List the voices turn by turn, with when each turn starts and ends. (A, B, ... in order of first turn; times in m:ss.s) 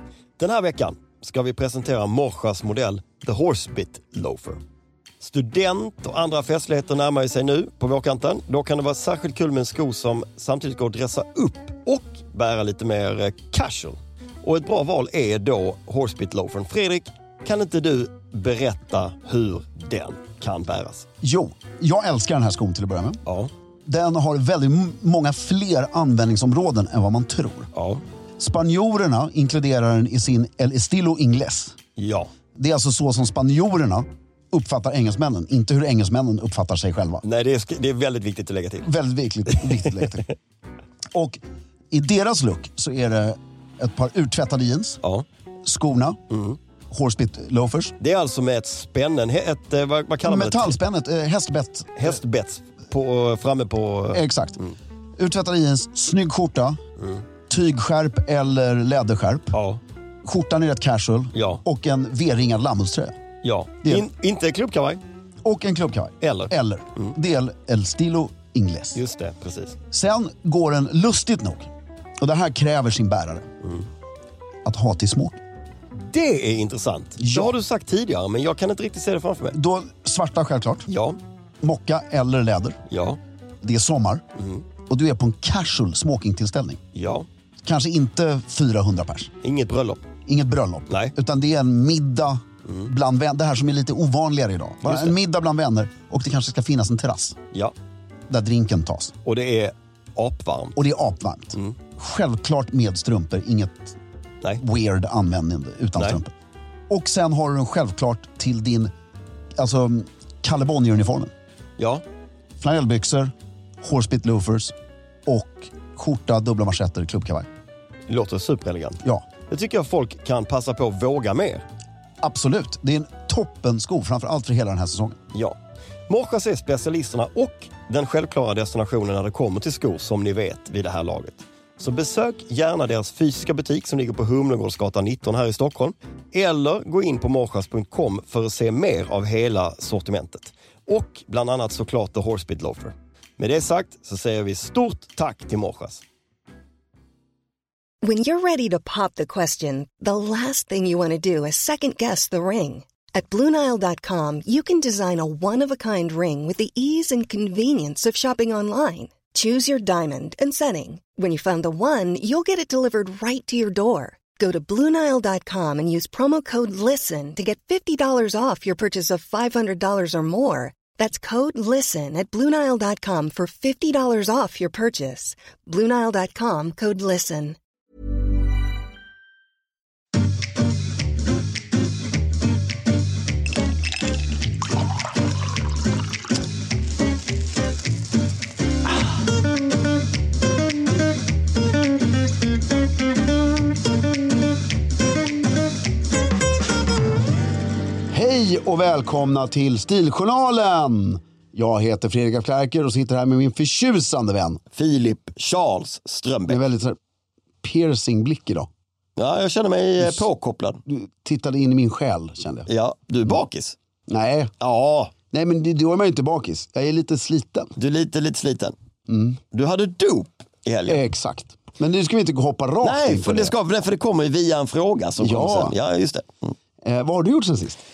0:00.4-0:04.6 A
0:05.2-0:21.1 A
0:21.2-0:23.2 B
0:23.2-0:23.5 A
0:23.8-0:27.7 B
0:27.7-0:28.0 A
0:28.4-0:31.8 B
0:32.0-0:32.3 A
0:32.5-0:37.2 B
0:37.2-0:38.9 A
0:38.8-0:40.3 B
0:39.7-0:40.0 A
0:41.1-0:45.0 B
0:45.6-0:46.2 B
0:46.3-0:46.6 A
0:46.9-0:48.0 B
0:48.0-0:50.8 A
0:50.2-0:52.1 B
0:52.0-0:54.7 A
0:54.1-0:54.6 B
0:55.2-0:56.8 B
0:57.5-0:59.6 B
0:59.5-0:59.8 A
1:00.2-1:03.2 B
1:01.3-1:01.6 A
1:03.4-1:05.0 A
1:05.4-1:09.0 B
1:06.2-1:07.1 A
1:08.9-1:09.8 A
1:09.9-1:13.5 B
1:14.6-1:15.4 B
1:15.9-1:19.6 A
1:17.2-1:17.5 B
1:19.5-1:20.9 B
1:20.9-1:21.2 A
1:21.6-1:22.8 B
1:22.9-1:23.2 A
1:23.6-1:24.2 B
1:24.4-1:24.6 A
1:24.9-1:26.8 B
1:26.9-1:27.3 A
1:27.6-1:29.3 B
1:29.4-1:30.0 A
1:30.2-1:37.4 B
1:30.9-1:31.1 A
1:34.8-1:35.1 A
1:38.3-1:39.1 B
1:39.2-1:40.8 A
1:40.8-1:44.0 B
1:44.6-1:46.3 B
1:46.9-1:48.9 B
1:49.6-1:51.3 B
1:51.8-1:52.0 A
1:52.6-1:54.7 B
1:55.2-1:57.5 B
1:58.1-2:01.6 A
2:02.2-2:05.2 B
2:05.3-2:05.6 A
2:06.1-2:26.0 A
2:28.0-2:57.6 C
3:18.1-3:24.6 B
3:24.7-3:26.6 A
3:26.5-3:27.0 B
3:27.6-3:28.7 B
3:29.2-3:30.8 A
3:30.0-3:30.2 B
3:30.8-3:32.7 B
3:32.7-3:33.8 A
3:34.1-3:34.5 B
3:34.6-3:35.1 A
3:35.3-3:37.7 B
3:37.8-3:38.7 A
3:39.1-3:39.4 B
3:39.5-3:41.0 A
3:40.9-3:43.5 B
3:42.8-3:46.5 A
3:45.2-3:45.7 B
3:46.8-3:47.8 B